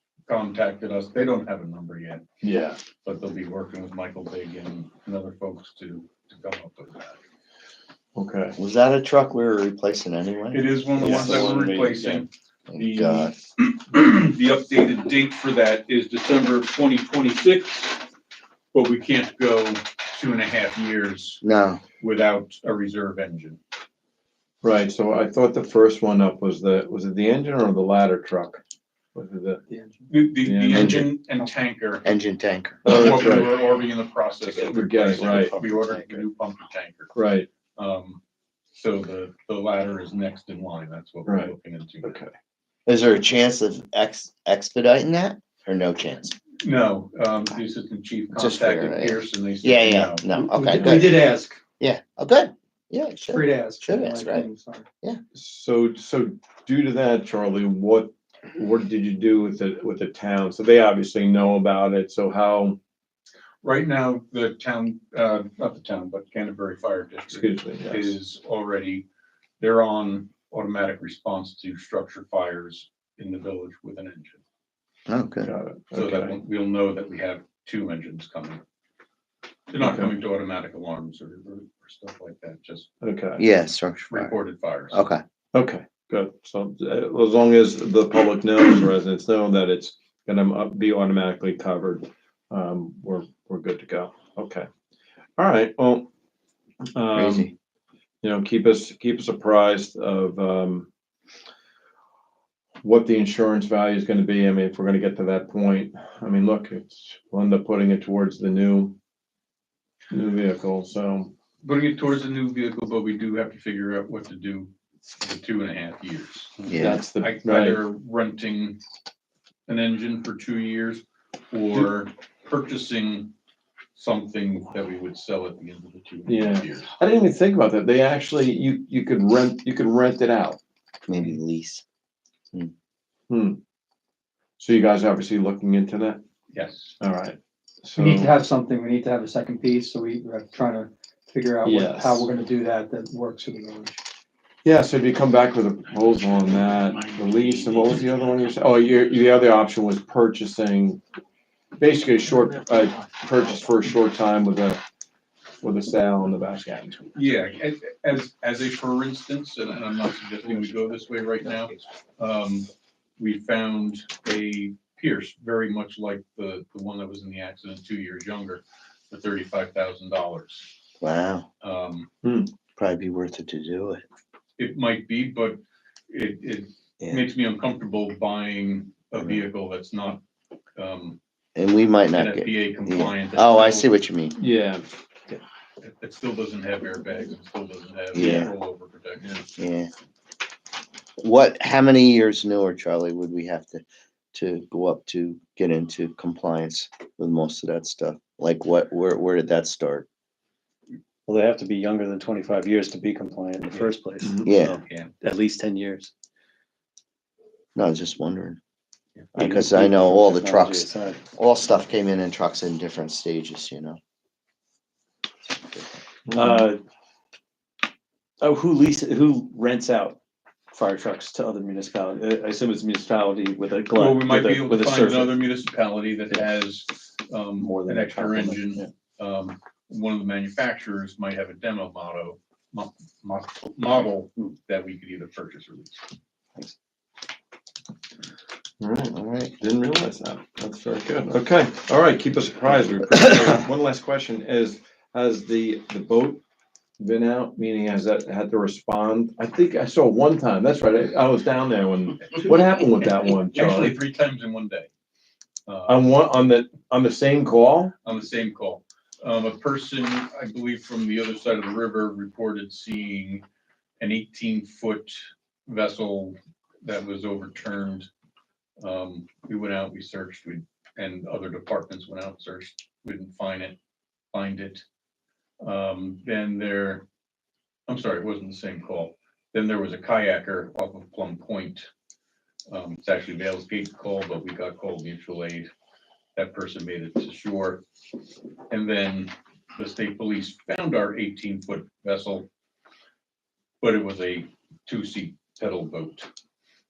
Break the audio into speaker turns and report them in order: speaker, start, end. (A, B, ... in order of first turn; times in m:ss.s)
0:00.3-0:02.2 A
0:02.4-0:02.8 B
0:03.0-0:07.2 A
0:08.2-0:08.6 B
0:08.6-0:10.6 C
0:10.5-0:18.0 A
0:11.0-0:12.2 D
0:11.1-0:11.5 B
0:12.7-0:13.3 C
0:18.7-0:21.4 A
0:21.4-0:21.8 C
0:22.0-0:23.6 A
0:24.6-0:28.6 B
0:29.2-0:29.6 B
0:30.1-0:32.0 A
0:30.4-0:31.0 B
0:30.7-0:31.1 C
0:32.0-0:33.3 C
0:32.8-0:37.1 A
0:32.9-0:33.5 B
0:34.5-0:35.6 B
0:37.1-0:37.5 B
0:37.8-0:38.2 A
0:38.7-0:42.2 A
0:41.2-0:42.3 B
0:42.9-0:46.4 C
0:46.6-0:50.3 A
0:48.3-0:51.3 C
0:50.6-0:51.6 E
0:51.8-0:54.5 C
0:53.3-0:54.9 E
0:55.4-1:02.8 B
1:03.6-1:09.1 A
1:07.3-1:08.2 B
1:09.6-1:14.4 A
1:15.1-1:15.5 C
1:15.4-1:16.4 B
1:15.9-1:18.6 A
1:19.7-1:22.9 A
1:19.8-1:20.1 B
1:23.0-1:23.4 B
1:23.4-1:24.3 C
1:24.1-1:25.0 A
1:24.9-1:25.2 C
1:25.5-1:34.7 B
1:35.4-1:36.1 B
1:37.0-1:37.5 B
1:37.2-1:37.5 C
1:38.2-1:40.9 B
1:42.8-1:49.0 B
1:50.1-1:51.3 B
1:51.6-1:56.6 A
1:56.7-1:57.0 C
1:56.8-1:57.8 B
1:57.2-1:58.8 A
1:59.7-2:03.3 A
2:04.0-2:06.9 A
2:06.3-2:10.6 B
2:11.1-2:11.8 C
2:13.3-2:13.6 B
2:14.6-2:16.2 B
2:16.5-2:17.0 A
2:17.0-2:18.4 B
2:18.0-2:24.0 E
2:21.6-2:22.3 B
2:24.6-2:31.0 B
2:31.8-2:34.8 B
2:35.6-2:37.1 B
2:37.1-2:50.7 A
2:51.0-2:51.5 C
2:51.6-2:52.1 A
2:52.2-2:52.5 B
2:52.8-2:54.0 C
2:54.6-3:00.2 A
2:59.2-2:59.4 C
3:00.8-3:01.2 A
3:01.6-3:04.4 C
3:02.2-3:03.9 A
3:04.4-3:05.4 B
3:05.8-3:09.4 A
3:08.1-3:08.5 C
3:09.6-3:09.9 C
3:11.2-3:20.1 C
3:21.3-3:26.1 D
3:24.4-3:24.8 C
3:24.9-3:25.1 A
3:27.8-3:28.6 C
3:29.3-3:31.2 D
3:29.4-3:34.0 C
3:36.3-3:36.8 D
3:38.4-3:40.2 D
3:40.7-3:45.3 D
3:43.9-3:56.0 A
3:47.6-3:48.8 D
3:58.8-4:06.4 B
3:59.2-3:59.5 C
4:07.0-4:14.0 B
4:13.3-4:14.9 A
4:15.7-4:16.0 A
4:15.9-4:17.9 B
4:18.0-4:23.4 A
4:24.0-4:28.1 A
4:28.8-4:33.8 A
4:34.3-4:34.8 A
4:35.6-4:37.0 A
4:37.9-4:41.9 A
4:42.7-4:45.7 A
4:46.4-4:47.8 A
4:48.7-4:52.5 A
4:53.8-4:56.3 A